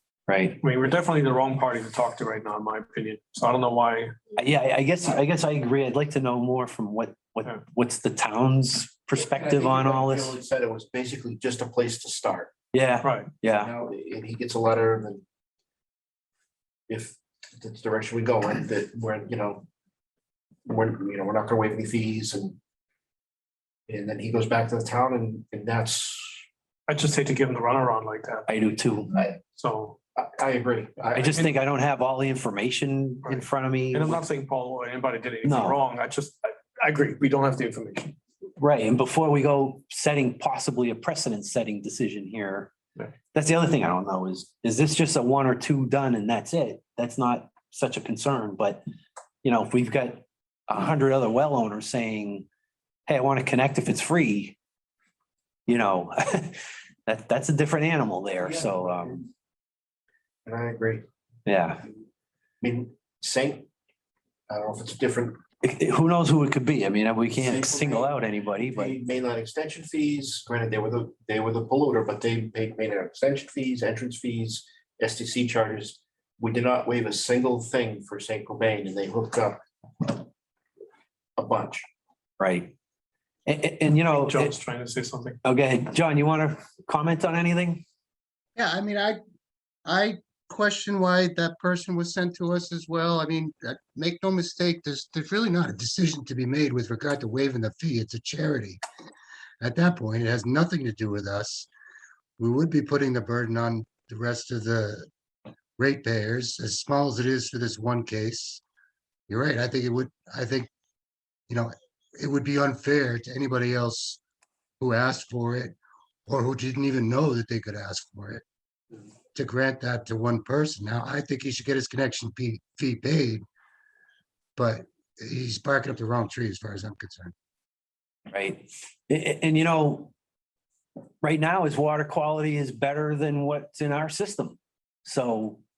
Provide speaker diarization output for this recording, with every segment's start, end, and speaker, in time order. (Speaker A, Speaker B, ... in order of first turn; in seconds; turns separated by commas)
Speaker A: 0.3-0.6, Speaker B: 0.6-4.1, Speaker A: 4.4-10.3, Speaker C: 9.1-12.5, Speaker A: 12.7-13.7, Speaker B: 13.0-13.3, Speaker C: 13.6-15.2, Speaker C: 16.9-19.6, Speaker C: 20.6-22.6, Speaker C: 23.9-26.4, Speaker B: 26.9-28.5, Speaker A: 28.5-29.1, Speaker C: 29.1-29.4, Speaker B: 29.5-30.0, Speaker C: 30.1-31.5, Speaker A: 31.1-34.2, Speaker B: 33.2-38.1, Speaker A: 35.4-35.8, Speaker A: 38.6-42.7, Speaker A: 43.3-48.8, Speaker A: 49.4-52.5, Speaker A: 53.1-54.5, Speaker A: 55.7-59.2, Speaker C: 58.4-59.2, Speaker C: 60.4-61.0, Speaker A: 61.5-61.8, Speaker C: 62.6-63.7, Speaker C: 64.5-65.4, Speaker A: 65.6-68.9, Speaker C: 67.3-80.2, Speaker C: 81.4-81.8, Speaker A: 82.4-82.7, Speaker A: 83.5-84.5, Speaker B: 84.1-85.4, Speaker A: 85.4-87.8, Speaker D: 88.5-89.2, Speaker D: 89.8-98.8, Speaker D: 99.6-101.7, Speaker D: 102.4-105.1, Speaker D: 105.8-108.6, Speaker D: 109.3-110.7, Speaker D: 111.5-114.2, Speaker D: 114.8-115.8, Speaker D: 116.3-118.4, Speaker D: 119.3-123.4, Speaker D: 124.5-127.3, Speaker A: 128.3-130.1, Speaker A: 131.2-135.6